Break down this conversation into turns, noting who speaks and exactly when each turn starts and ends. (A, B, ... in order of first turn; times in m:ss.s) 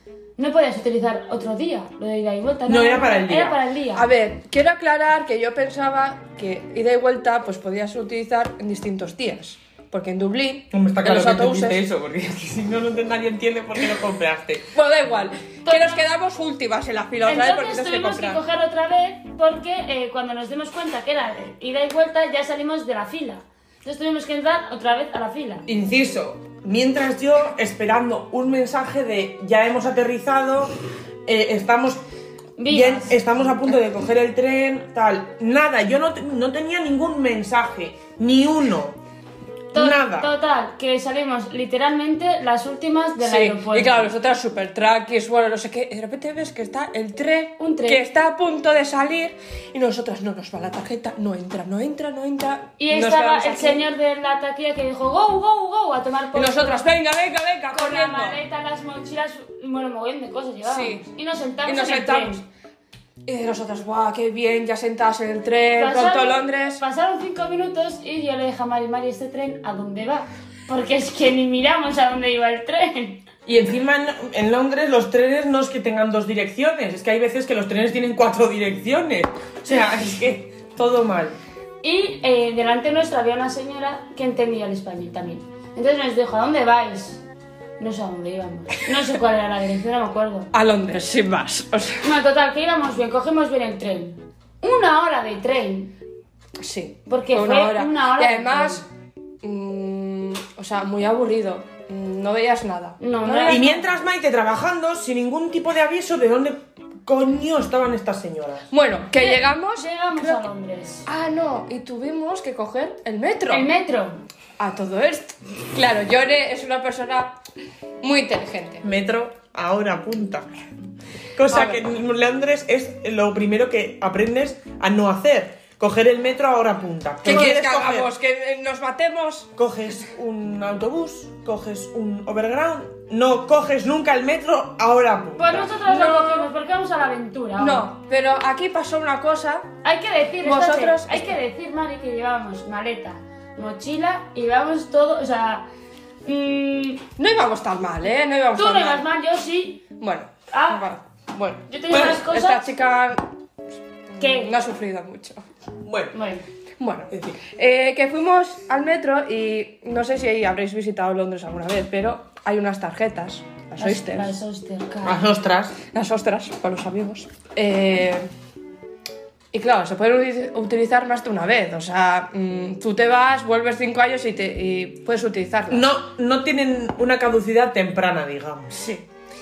0:00.4-0:04.0 A
0:02.7-0:03.6 B
0:03.9-0:11.8 C
0:10.7-0:14.7 B
0:14.7-0:18.4 C
0:15.6-0:16.0 A
0:17.2-0:25.6 A
0:25.7-0:32.0 B
0:32.6-0:33.1 A
0:32.7-0:39.0 B
0:39.7-0:44.1 A
0:39.7-0:40.3 B
0:43.2-0:53.8 C
0:47.6-0:48.0 A
0:52.8-0:56.9 A
0:56.3-0:58.4 C
0:57.7-1:02.4 A
1:00.6-1:01.0 C
1:01.6-1:02.4 C
1:03.2-1:06.8 C
1:05.8-1:13.2 A
1:13.4-1:21.4 B
1:21.8-1:27.2 A
1:27.8-1:30.5 A
1:30.5-1:32.1 C
1:32.0-1:35.9 A
1:36.6-1:38.8 C
1:37.1-1:38.8 A
1:39.4-1:43.8 C
1:43.0-1:43.8 A
1:43.5-1:48.7 B
1:48.7-1:50.4 C
1:49.2-1:51.1 A
1:51.0-1:53.7 C
1:53.5-1:54.2 A
1:54.6-1:57.4 C
1:58.0-1:58.8 C
1:58.8-2:00.5 B
2:01.4-2:08.1 B
2:01.5-2:01.8 C
2:07.2-2:09.5 C
2:09.6-2:15.7 B
2:15.4-2:17.9 A
2:15.8-2:16.5 C
2:17.6-2:19.7 C
2:19.8-2:25.7 A
2:20.4-2:21.4 C
2:26.2-2:27.0 A
2:27.2-2:29.0 C
2:28.6-2:29.8 A
2:30.0-2:33.2 C
2:30.5-2:30.8 A
2:31.7-2:32.7 A
2:31.9-2:32.2 B
2:34.1-2:35.4 C
2:34.2-2:34.5 A
2:35.8-2:36.1 B
2:36.1-2:36.4 A
2:36.8-2:44.3 C
2:37.1-2:37.4 B
2:43.8-2:45.2 A
2:45.0-2:45.8 B
2:45.9-2:48.3 C
2:49.5-2:55.9 C
2:55.7-2:58.8 B
2:58.7-2:59.0 C